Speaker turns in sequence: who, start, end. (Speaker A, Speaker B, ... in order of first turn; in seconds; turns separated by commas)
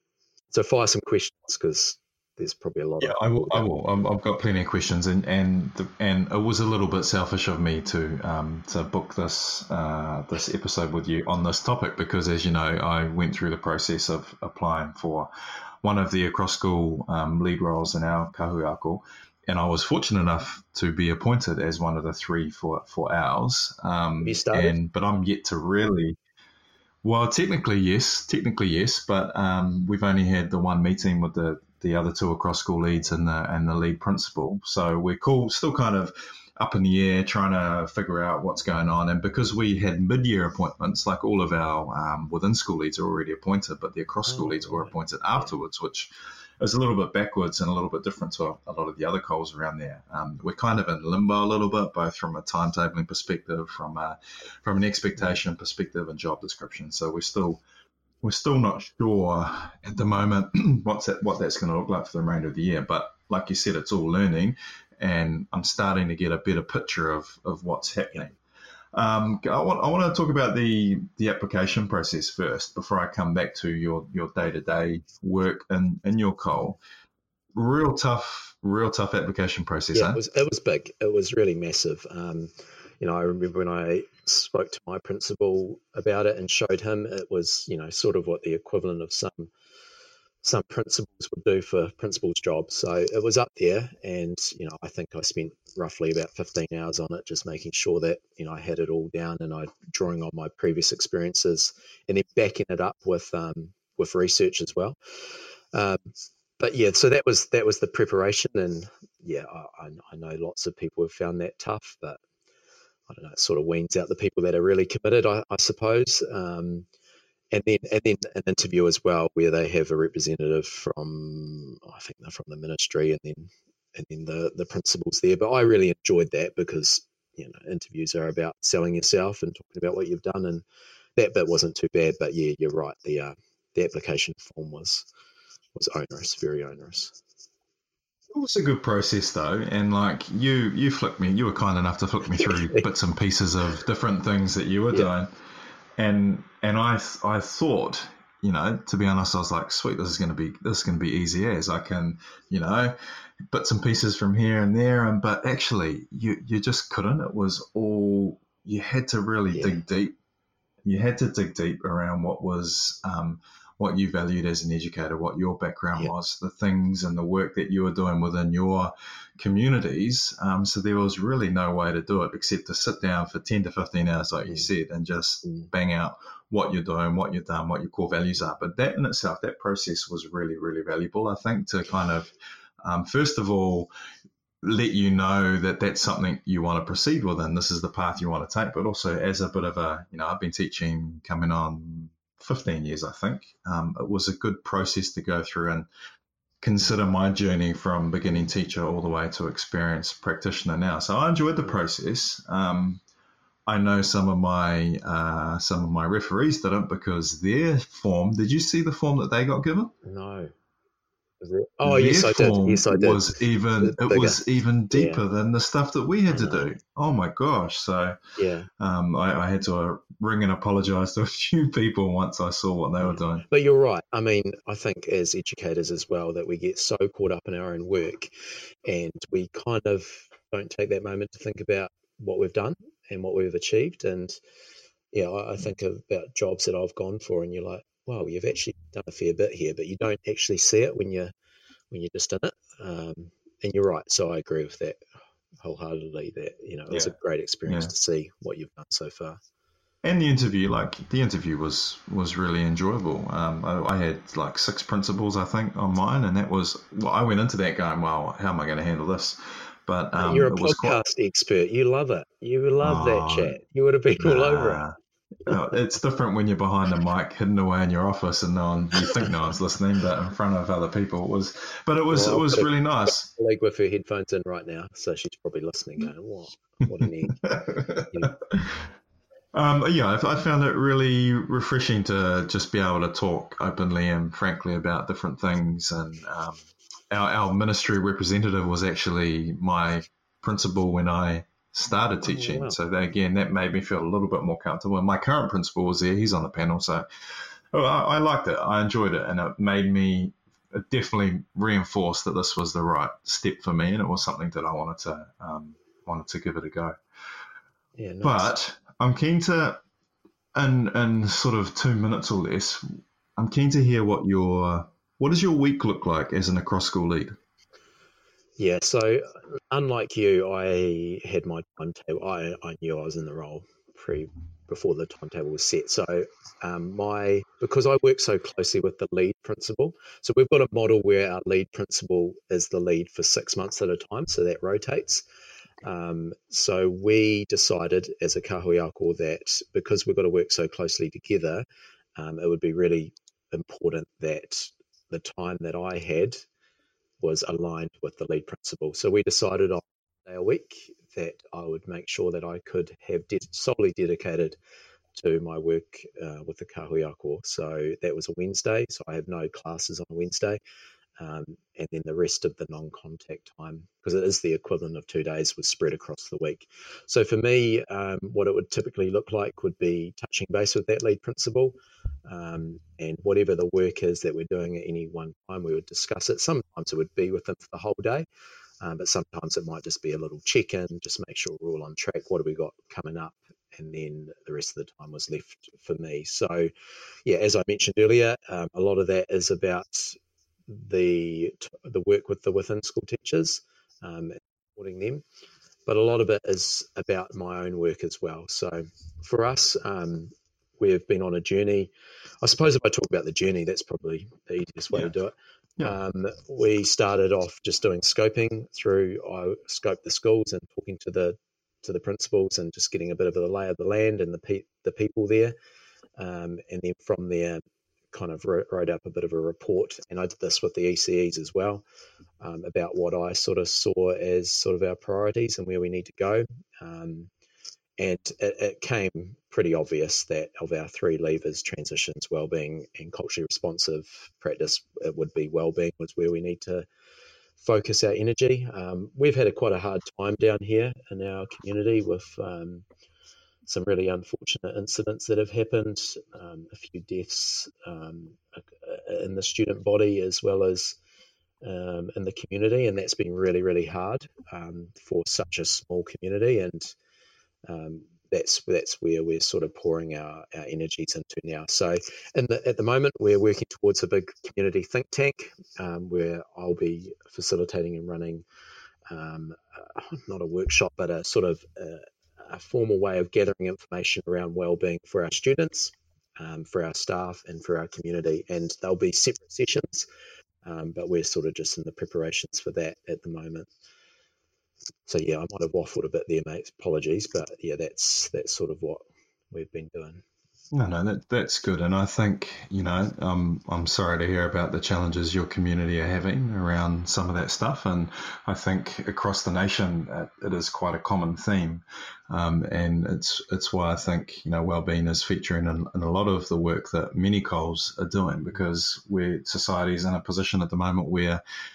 Speaker A: 0.5-3.8, Speaker B: 3.0-15.3, Speaker B: 15.8-26.2, Speaker A: 24.2-24.8, Speaker B: 27.0-57.6, Speaker A: 44.3-44.9, Speaker B: 58.2-68.4, Speaker B: 69.0-76.8, Speaker B: 77.5-80.2, Speaker A: 79.9-89.5, Speaker A: 90.4-105.0, Speaker A: 105.7-112.2, Speaker A: 113.1-116.9, Speaker A: 117.5-130.6, Speaker A: 131.2-135.1, Speaker A: 135.8-137.2, Speaker B: 138.3-145.3, Speaker A: 142.4-142.9, Speaker B: 146.0-152.9, Speaker B: 153.5-160.2, Speaker A: 159.5-159.8, Speaker B: 160.8-182.3, Speaker B: 182.8-183.9, Speaker B: 184.6-195.9, Speaker B: 196.6-203.0, Speaker B: 203.7-209.9, Speaker A: 210.1-210.5, Speaker A: 211.4-215.2, Speaker B: 211.8-218.2, Speaker A: 216.3-216.7, Speaker A: 218.4-218.7, Speaker B: 218.8-223.4, Speaker A: 223.0-228.3, Speaker A: 228.8-234.4, Speaker A: 235.1-241.3, Speaker A: 241.9-245.0, Speaker A: 245.6-249.4, Speaker B: 246.9-247.2, Speaker B: 250.0-261.0, Speaker A: 260.2-264.8, Speaker B: 262.8-263.6, Speaker B: 264.1-264.9, Speaker B: 265.5-273.3, Speaker A: 272.1-277.6, Speaker B: 277.5-278.9, Speaker B: 279.5-307.0, Speaker A: 292.2-292.8, Speaker A: 308.0-308.5, Speaker B: 308.2-309.8, Speaker B: 310.5-317.4, Speaker A: 318.6-335.2, Speaker A: 335.8-346.4, Speaker A: 347.2-354.6, Speaker A: 355.1-360.6, Speaker A: 361.2-378.3, Speaker A: 378.8-386.7, Speaker A: 387.3-395.2, Speaker A: 395.9-415.6, Speaker A: 416.2-421.8, Speaker A: 422.4-427.3, Speaker A: 428.0-436.9, Speaker A: 437.6-442.8, Speaker A: 443.7-451.0, Speaker A: 451.6-456.9, Speaker A: 457.7-468.4, Speaker A: 469.1-480.1, Speaker A: 480.6-483.7, Speaker A: 485.1-490.2, Speaker B: 490.7-511.4